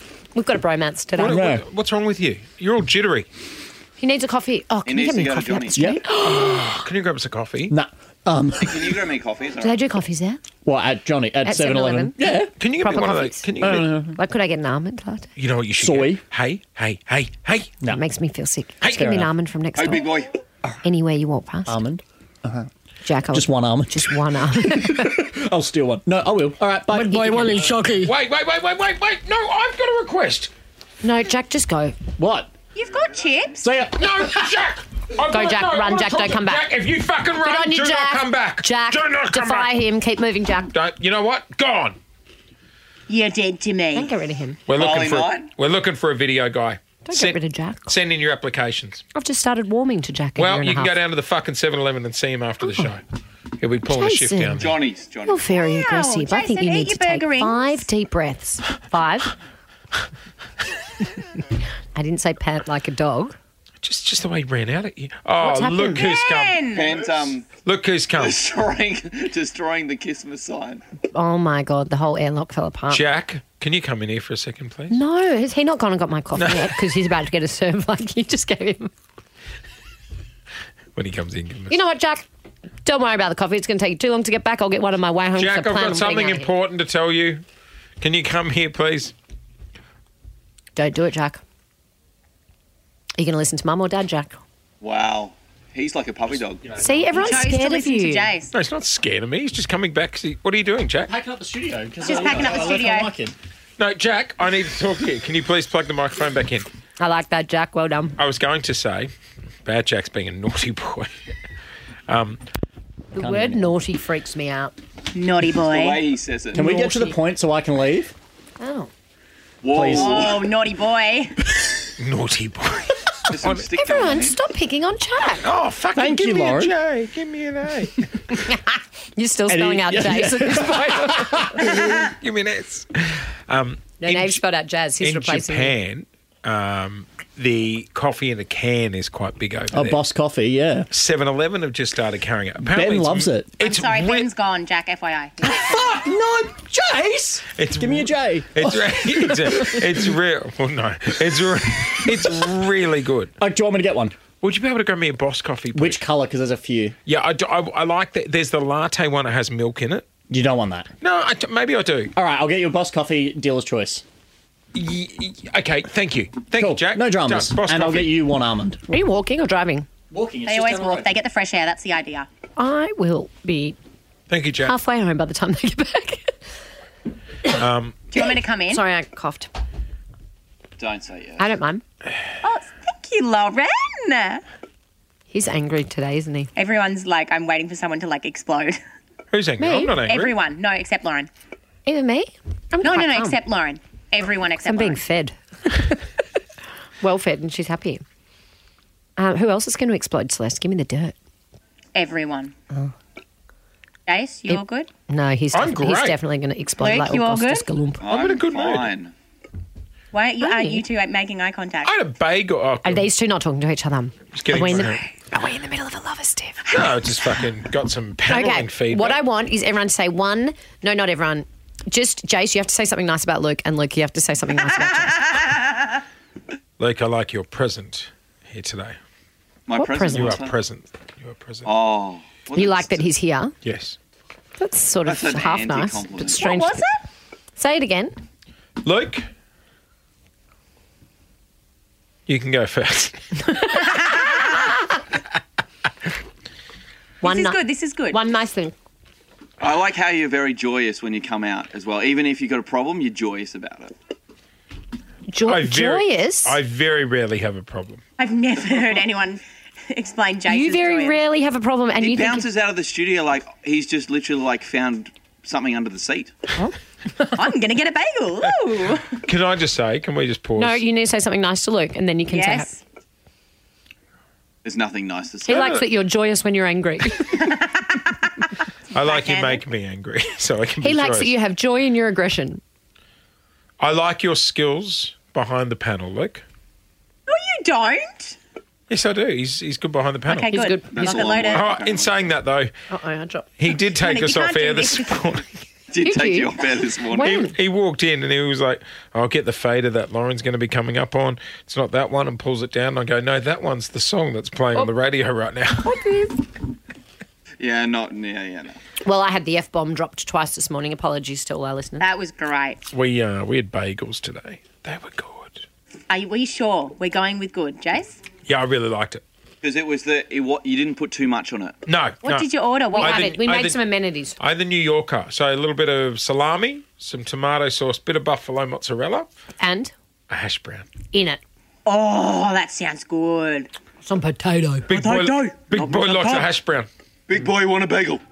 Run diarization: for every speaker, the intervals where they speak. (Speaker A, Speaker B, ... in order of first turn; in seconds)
Speaker A: 0.3-1.4, 4.0-6.8, 9.6-10.4, 11.4-12.2, 12.8-13.5, 14.1-15.3, 17.9-20.0, 20.8-21.8, 23.0-25.2, 26.9-28.1, 31.0-31.9, 35.3-36.7, 37.4-40.7, 43.9-44.6, 47.0-48.0, 49.1-51.0, 52.6-52.9, 53.9-54.6, 55.2-59.3, 62.0-63.4, 65.4-66.0, 71.1-73.1, 74.9-78.9, 81.7-82.2, 82.8-86.5, 90.8-91.4, 93.2-94.4, 96.8-98.3, 107.0-108.2, 113.1-114.8, 116.5-117.1, 118.6-118.9, 123.8-125.5, 129.2-131.4, 134.0-135.8, 168.9-169.9, 172.6-173.8, 174.6-176.3, 178.7-179.5, 181.4-181.8, 185.3-186.5, 189.6-190.0, 191.8-193.4, 194.6-196.0, 197.0-198.0, 199.2-201.1, 204.5-208.0, 210.4-210.8, 212.8-217.2, 218.3-225.3, 229.7-230.4, 232.6-233.6, 234.6-236.8, 237.6-238.2, 247.2-247.6, 248.1-248.7, 255.3-256.6, 260.5-262.5, 266.6-267.3, 270.6-272.7, 275.4-277.3, 280.8-282.6, 290.3-291.4, 292.9-293.5, 296.0-297.6, 305.9-306.4, 309.0-312.1, 322.9-324.4, 329.6-329.9, 331.1-331.4, 334.0-334.9
Speaker B: 1.2-3.3, 6.2-7.8, 12.6-13.9, 15.4-17.7, 18.8-19.1, 28.0-30.5, 34.0-39.7, 40.7-42.0, 44.7-49.0, 50.4-53.0, 53.6-54.8, 63.8-66.7, 67.5-68.4, 72.9-75.0, 76.4-76.8, 81.0-81.8, 85.4-87.4, 88.0-89.1, 98.5-101.1, 103.8-106.7, 108.2-109.1, 109.7-111.1, 112.1-112.4, 122.0-123.8, 125.4-128.0, 130.9-134.4, 135.0-140.0, 140.9-144.3, 147.6-153.3, 154.4-156.0, 157.1-160.1, 161.0-162.1, 164.7-168.1, 174.3-174.8, 177.5-178.0, 189.3-190.4, 205.5-206.2, 208.1-208.9, 211.8-213.1, 214.3-215.0, 216.7-219.2, 226.8-229.0, 230.1-231.7, 233.6-234.0, 238.8-239.3, 242.3-243.9, 255.4-258.0, 269.3-270.8, 275.6-275.9, 278.9-281.3, 283.8-286.4, 288.9-290.5, 291.5-292.7, 293.6-295.4, 297.2-306.0, 312.9-315.6, 318.5-319.2, 321.9-323.8, 324.4-329.3, 330.3-330.9, 334.9-336.9
Speaker C: 1.2-1.6, 5.8-6.1, 7.7-9.0, 10.7-12.5, 13.6-14.2, 15.8-16.2, 19.0-19.3, 21.7-22.7, 23.3-27.9, 32.2-32.5, 33.6-34.0, 96.6-97.4, 101.1-103.3, 113.2-113.8, 116.5-118.1, 119.7-120.4, 126.0-126.7, 129.5-131.6, 139.7-140.9, 142.6-143.5, 145.4-149.8, 153.4-154.2, 155.7-157.0, 160.3-160.9, 162.2-164.0, 166.5-168.8, 170.1-171.2
Speaker D: 4.9-5.8, 8.6-9.8, 19.8-20.4, 44.8-45.5, 54.6-55.5, 66.7-67.5, 68.2-70.8, 94.8-96.6, 115.7-117.0, 119.6-120.4, 123.3-124.4, 180.8-181.5, 208.0-209.1, 229.7-230.6, 231.6-233.0, 235.1-236.4, 249.6-253.9, 262.0-266.3, 274.6-275.7, 290.9-292.2, 295.9-297.2, 307.6-308.8, 319.6-321.8, 337.3-338.2
Speaker E: 32.8-33.7, 43.1-44.1, 55.6-57.9, 66.0-67.0, 97.2-98.5, 102.0-103.1, 115.1-116.1, 119.9-121.3, 143.6-146.0, 170.5-172.3, 178.1-178.8, 182.4-184.4, 186.6-188.8, 190.0-191.3, 192.8-195.0, 201.9-202.5, 204.1-204.9, 206.8-207.7, 210.1-212.0, 236.3-237.0, 247.2-248.2, 258.2-261.2, 267.3-269.1, 272.3-272.8, 277.3-277.9, 278.9-279.6, 287.3-288.4, 290.3-291.7, 293.7-295.3, 312.0-312.8, 316.1-318.2, 322.2-323.3, 331.9-333.7, 334.9-336.5